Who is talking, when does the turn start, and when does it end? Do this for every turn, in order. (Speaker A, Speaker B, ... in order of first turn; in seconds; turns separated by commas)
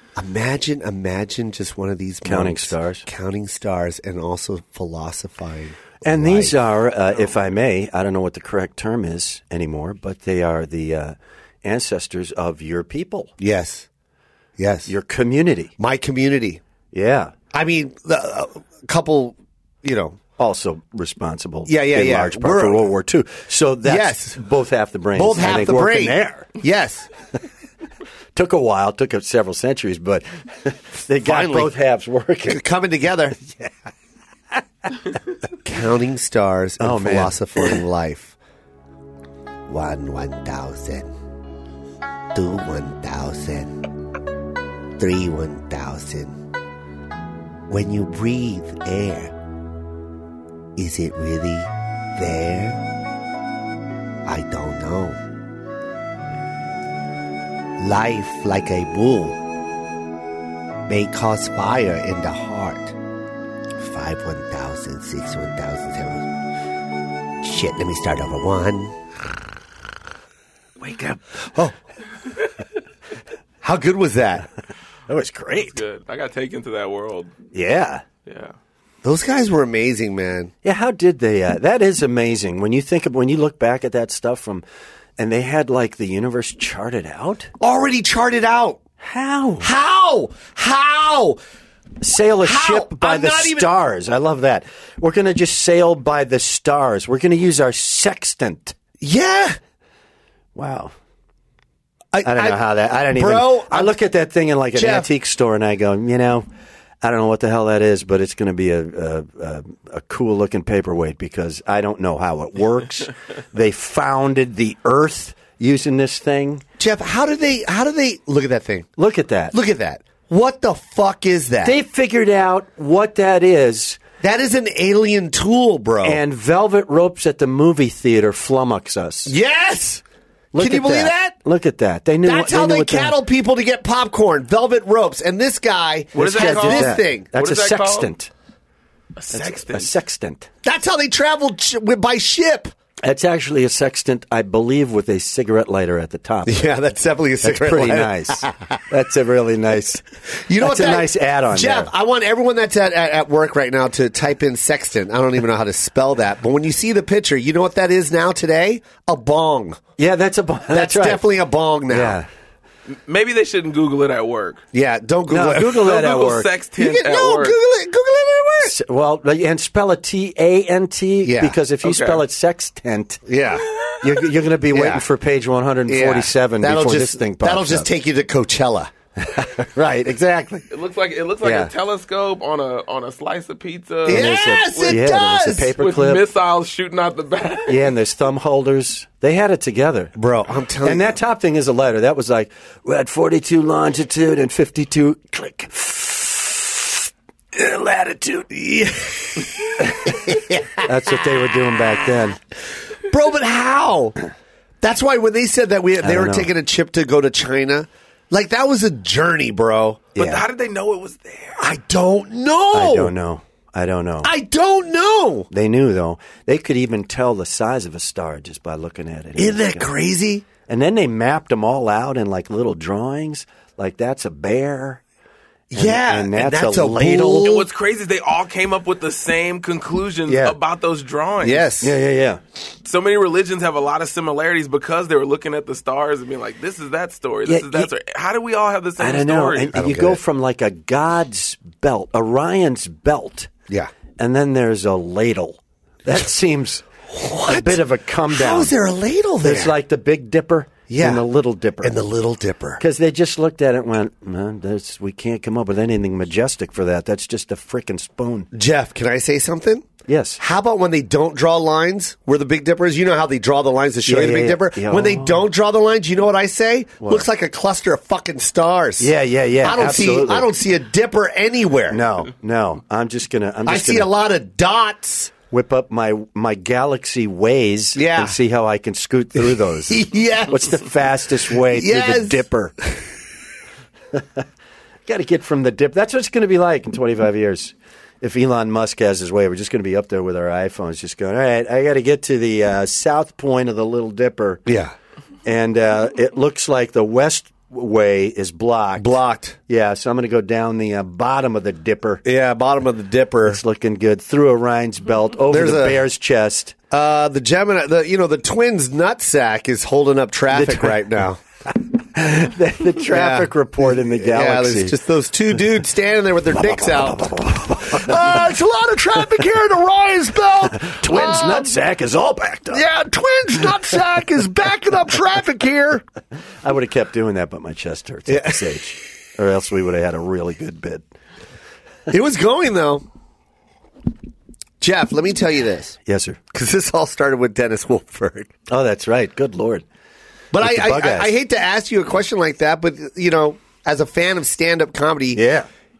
Speaker A: 0.1-6.6, Speaker B: 2.2-3.0, Speaker B: 6.0-13.3, Speaker A: 13.4-13.9, Speaker A: 14.6-14.9, Speaker B: 14.9-15.7, Speaker A: 15.8-16.6, Speaker B: 16.9-17.3, Speaker A: 17.5-20.2, Speaker B: 20.4-26.5, Speaker A: 21.6-22.9, Speaker A: 23.8-24.4, Speaker A: 25.1-27.1, Speaker B: 28.3-32.6, Speaker A: 31.2-31.7, Speaker A: 32.5-33.4, Speaker A: 35.6-38.4, Speaker B: 36.8-37.8, Speaker A: 39.7-41.1, Speaker A: 42.3-43.8, Speaker A: 45.0-46.4, Speaker A: 47.7-49.3, Speaker A: 50.8-52.8, Speaker A: 54.2-55.2, Speaker A: 57.8-59.4, Speaker A: 60.9-63.0, Speaker A: 63.8-66.3, Speaker A: 67.4-68.9, Speaker B: 70.8-71.2, Speaker A: 71.4-71.7, Speaker A: 73.6-74.5, Speaker B: 75.1-75.8, Speaker C: 75.5-77.3, Speaker B: 77.5-78.0, Speaker C: 78.2-78.5, Speaker A: 79.0-80.5, Speaker B: 80.6-84.6, Speaker B: 85.2-87.5, Speaker A: 87.6-88.8, Speaker B: 89.0-89.7, Speaker A: 89.6-91.4, Speaker B: 92.0-98.8, Speaker A: 92.4-93.7, Speaker A: 99.0-99.6, Speaker B: 100.5-100.9, Speaker A: 102.1-104.0, Speaker B: 102.2-106.5, Speaker A: 104.7-105.1, Speaker B: 107.0-116.6, Speaker A: 116.8-118.9, Speaker B: 119.0-119.5, Speaker A: 119.5-121.8, Speaker B: 121.6-124.0, Speaker A: 124.2-126.2, Speaker B: 126.0-129.3, Speaker A: 129.2-130.0, Speaker B: 130.5-133.2, Speaker A: 130.5-131.4, Speaker A: 132.2-137.3, Speaker C: 136.1-138.1, Speaker B: 136.1-138.3, Speaker C: 139.2-139.9, Speaker B: 139.3-140.5, Speaker A: 140.6-142.7, Speaker B: 143.0-146.7, Speaker A: 146.4-148.8, Speaker B: 147.4-150.0, Speaker A: 150.4-159.8, Speaker B: 150.6-151.9, Speaker B: 160.0-161.2, Speaker A: 160.7-162.2, Speaker B: 161.9-162.3, Speaker C: 162.9-164.6, Speaker A: 164.7-166.0, Speaker B: 165.3-166.5, Speaker C: 165.7-167.6, Speaker A: 166.8-168.8, Speaker B: 168.6-173.2, Speaker A: 171.2-171.6, Speaker C: 171.8-172.2, Speaker A: 173.2-173.6, Speaker B: 174.0-177.9, Speaker A: 174.7-175.0, Speaker A: 175.9-178.9, Speaker B: 179.2-179.9, Speaker A: 179.8-180.7, Speaker C: 180.7-187.9, Speaker A: 181.4-181.7, Speaker A: 184.1-185.7, Speaker B: 184.1-186.2, Speaker B: 187.7-190.1, Speaker A: 190.2-191.2, Speaker B: 190.8-198.4, Speaker A: 198.2-200.9, Speaker B: 199.8-202.4, Speaker A: 203.0-204.2, Speaker A: 204.8-210.1, Speaker B: 206.0-206.5, Speaker B: 210.2-210.4, Speaker C: 210.2-211.6, Speaker A: 211.6-213.1, Speaker B: 212.7-214.3, Speaker A: 214.2-215.5, Speaker B: 215.5-219.9, Speaker A: 219.3-220.5, Speaker B: 220.6-225.0, Speaker A: 225.7-227.7, Speaker B: 225.8-227.5, Speaker C: 227.4-231.7, Speaker B: 230.3-230.5, Speaker A: 231.4-231.9, Speaker B: 231.8-232.4, Speaker C: 232.8-239.8, Speaker B: 237.5-237.9, Speaker B: 239.0-243.5, Speaker A: 239.7-240.2, Speaker B: 244.2-246.9, Speaker A: 247.1-249.7, Speaker B: 247.4-248.7, Speaker B: 249.4-252.0, Speaker A: 250.9-251.2, Speaker A: 251.8-252.8, Speaker B: 252.8-258.5, Speaker A: 258.5-259.9, Speaker B: 260.1-260.4, Speaker A: 260.4-272.0, Speaker B: 264.1-265.4, Speaker B: 269.0-270.5, Speaker B: 271.9-274.1, Speaker A: 273.6-275.3, Speaker B: 275.5-282.7, Speaker A: 277.9-278.4, Speaker A: 279.4-280.9, Speaker A: 281.5-282.4, Speaker B: 284.1-284.4, Speaker B: 285.1-294.6, Speaker A: 294.6-294.9, Speaker B: 295.4-299.1, Speaker A: 299.0-299.6, Speaker B: 299.7-302.2, Speaker A: 302.2-303.6, Speaker B: 303.5-306.8, Speaker A: 305.5-306.0, Speaker A: 306.9-311.4, Speaker B: 310.5-311.1, Speaker B: 312.1-314.9, Speaker A: 313.0-321.7, Speaker B: 316.5-318.4, Speaker B: 320.8-322.8, Speaker A: 322.7-326.0, Speaker B: 326.6-331.0, Speaker A: 328.3-328.8, Speaker A: 332.1-333.0, Speaker A: 334.8-336.0, Speaker B: 336.1-336.4, Speaker A: 336.5-338.5, Speaker B: 338.7-339.8, Speaker A: 340.5-345.4, Speaker B: 340.6-341.3, Speaker B: 345.3-345.7